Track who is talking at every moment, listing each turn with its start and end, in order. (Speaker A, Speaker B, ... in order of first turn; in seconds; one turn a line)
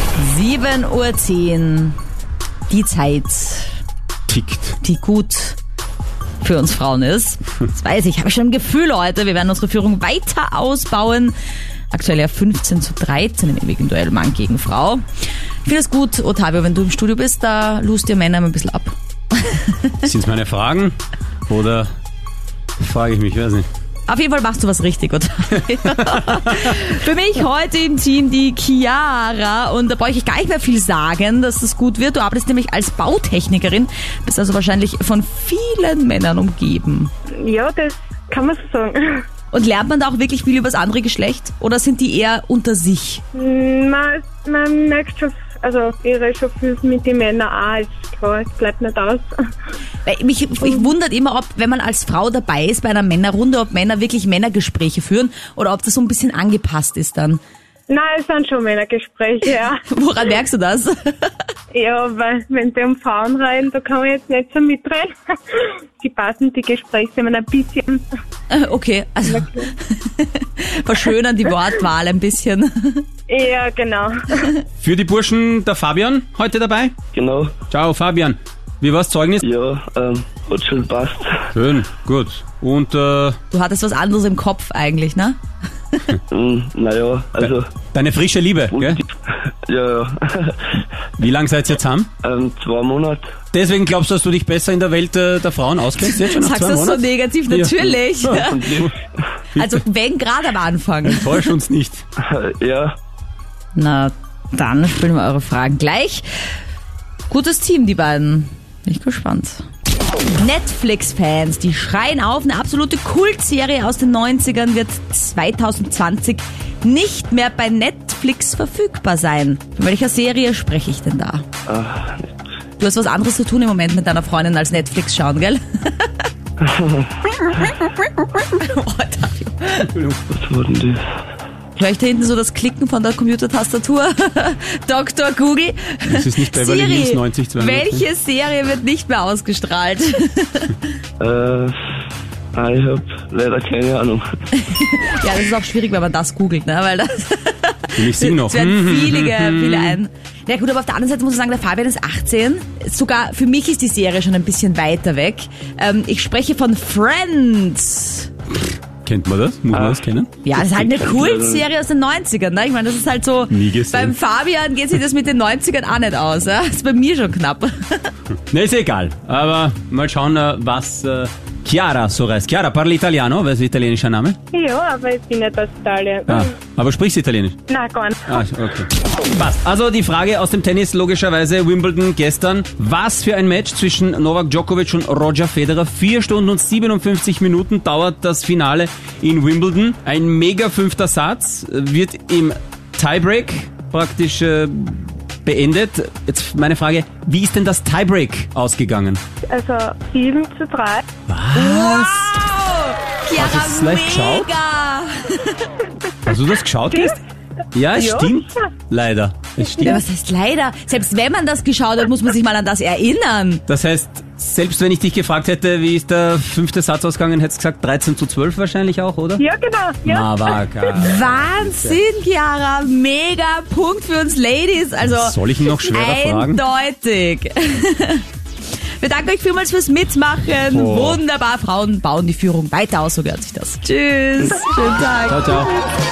Speaker A: 0.1-2.0
Speaker A: 2.7-3.7
Speaker B: 4.3-4.8
Speaker A: 4.8-5.6
Speaker A: 6.4-11.3
Speaker A: 11.9-15.0
Speaker A: 15.6-20.1
Speaker B: 20.0-21.0
Speaker B: 21.5-21.9
Speaker B: 22.8-23.7
Speaker A: 24.1-37.1
Speaker C: 37.4-39.2
Speaker A: 39.5-43.2
Speaker C: 43.3-49.4
Speaker A: 50.0-57.4
Speaker C: 57.9-59.8
Speaker A: 59.9-61.3
Speaker C: 61.7-68.1
Speaker A: 68.5-73.0
Speaker C: 69.4-69.7
Speaker C: 73.3-74.5
Speaker B: 74.8-76.9
Speaker D: 77.1-77.5
Speaker B: 77.7-79.4
Speaker D: 79.4-81.5
Speaker B: 81.5-83.4
Speaker A: 83.5-85.4
Speaker A: 85.9-86.2
Speaker D: 86.3-87.7
Speaker B: 87.4-89.0
Speaker D: 88.7-90.8
Speaker B: 91.2-92.1
Speaker D: 92.2-93.3
Speaker B: 93.5-98.0
Speaker A: 96.0-98.8
Speaker D: 98.3-98.9
Speaker A: 99.5-101.5
Speaker B: 101.0-102.0
Speaker D: 102.2-103.0
Speaker A: 103.7-106.3
Speaker A: 107.3-109.6
Speaker A: 110.3-121.4
Speaker D: 121.7-122.3
Speaker A: 122.8-126.1
Speaker D: 126.6-127.1
Speaker A: 127.4-129.9
Speaker B: 129.9-130.2
Speaker D: 130.3-131.0
Speaker A: 131.8-140.8
Speaker B: 136.1-138.0
Speaker D: 141.2-141.7
Speaker D: 142.5-144.2
Speaker A: 144.6-158.3
Speaker B: 147.9-150.0
Speaker B: 159.0-160.3
Speaker D: 159.7-160.0
Speaker A: 160.4-168.1
Speaker D: 160.5-161.6
Speaker B: 163.5-164.1
Speaker B: 168.5-174.4
Speaker C: 174.5-176.5
Speaker B: 176.3-177.6
Speaker C: 177.7-178.4
Speaker B: 178.3-199.2
Speaker C: 199.4-201.1
Speaker B: 201.3-202.4
Speaker A: 201.5-205.7
Speaker B: 203.3-204.5
Speaker B: 206.2-207.2
Speaker C: 206.9-207.2
Speaker B: 207.7-210.0
Speaker C: 208.0-208.6
Speaker A: 209.8-213.6
Speaker B: 213.7-219.4
Speaker C: 219.4-220.4
Speaker B: 220.0-222.0
Speaker A: 220.9-228.2
Speaker B: 225.0-226.6
Speaker A: 229.0-235.5
Speaker B: 230.7-231.2
Speaker B: 235.3-235.7